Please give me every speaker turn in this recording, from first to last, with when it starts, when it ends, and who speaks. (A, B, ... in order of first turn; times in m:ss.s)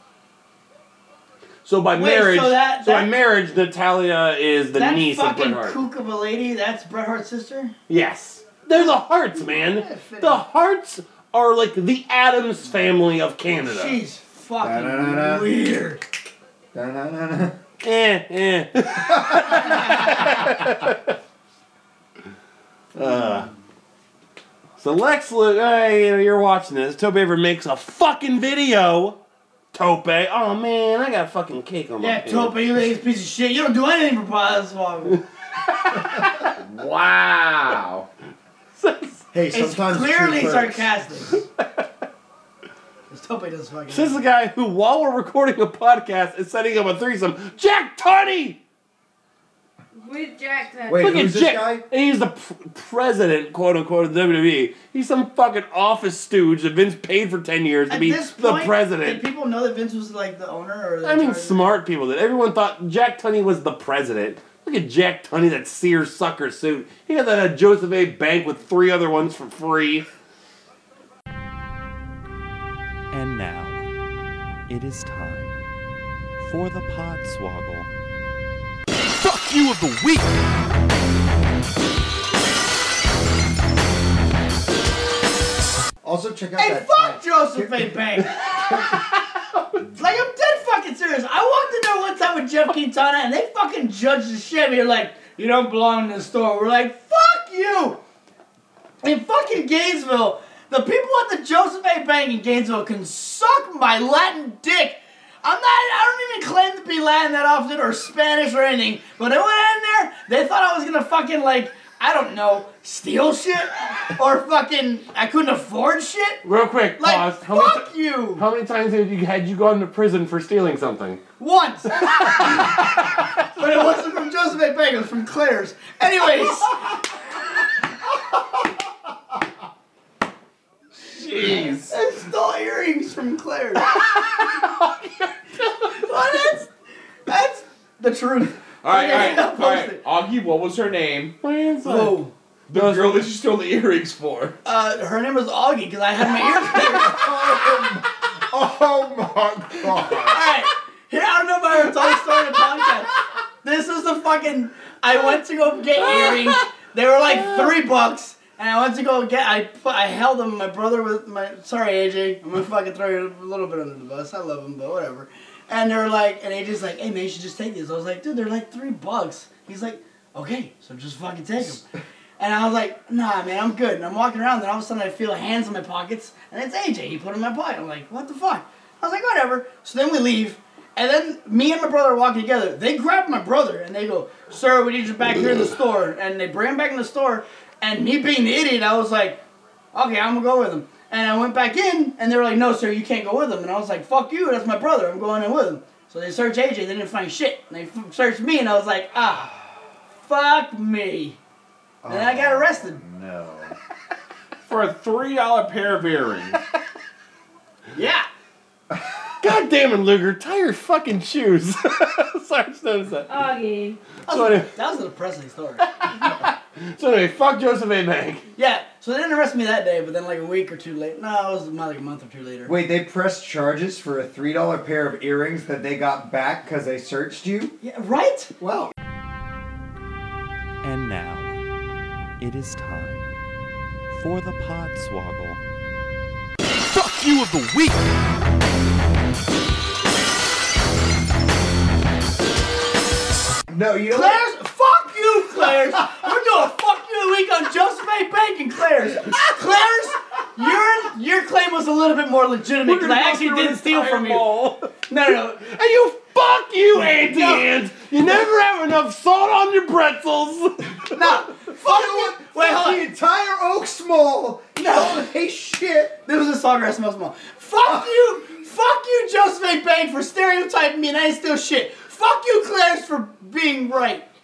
0:01.6-0:05.8 A
0:01.9-0:03.2 B
0:04.7-0:07.8 B
0:07.9-0:14.0 A
0:08.7-0:10.5 B
0:13.6-0:16.0 B
0:14.6-0:15.6 C
0:16.7-0:17.6 C
0:17.8-0:21.1 A
0:19.2-0:19.5 C
0:23.0-0:23.5 A
0:23.0-0:23.5 B
0:24.8-0:29.2 A
0:29.7-0:32.8 A
0:32.0-0:35.2 B
0:35.7-0:38.1 A
0:38.8-0:39.3 A
0:39.3-0:40.9 C
0:39.5-0:41.4 B
0:43.1-0:44.3 B
0:43.9-0:48.6 A
0:50.0-0:51.3 D
0:50.9-0:51.9 C
0:51.0-0:59.2 A
0:57.9-1:01.8 B
1:01.0-1:10.1 A
1:13.1-1:13.8 A
1:13.4-1:13.7 E
1:14.7-1:15.6 A
1:16.4-1:17.8 E
1:19.2-1:20.4 E
1:26.0-1:28.0 C
1:26.6-1:28.9 B
1:29.9-1:38.0 B
1:39.0-1:56.4 B
1:56.4-2:01.2 A
1:57.0-1:58.5 B
2:01.4-2:02.8 B
2:02.0-2:03.2 A
2:03.6-2:07.0 B
2:11.0-2:12.0 F
2:11.5-2:14.0 B
2:14.0-2:15.0 A
2:15.8-2:16.7 B
2:17.3-2:20.0 B
2:18.8-2:21.4 F
2:21.4-2:23.3 A
2:21.8-2:22.3 B
2:22.7-2:24.6 F
2:24.6-2:27.4 B
2:26.7-2:30.5 C
2:30.1-2:51.8 B
2:36.0-2:36.6 A
2:37.4-2:37.7 A
2:52.4-3:09.4 B
3:09.9-3:19.6 B
3:20.2-3:21.4 B
3:22.0-3:23.8 C
3:22.1-3:23.0 B
3:24.7-3:26.6 F
3:27.9-3:28.3 B
3:29.4-3:33.3 A
3:33.3-3:34.0 D
3:34.3-3:35.9 B
3:34.3-3:34.7 A
3:36.0-3:38.5 A
3:38.6-3:42.7 B
3:42.6-3:47.8 C
3:47.8-3:48.5 B
3:48.6-3:48.9 C
3:50.8-3:51.6 A
3:52.4-3:53.3 A
3:52.7-3:53.0 E
3:54.2-3:55.6 E
3:56.8-3:58.0 E
4:03.7-4:04.4 C
4:04.1-4:15.7 B
4:12.8-4:15.0 A
4:15.6-4:21.2 A
4:16.9-4:17.7 B
4:21.1-4:23.1 B
4:21.8-4:26.2 C
4:24.8-4:25.2 B
4:26.2-4:34.3 B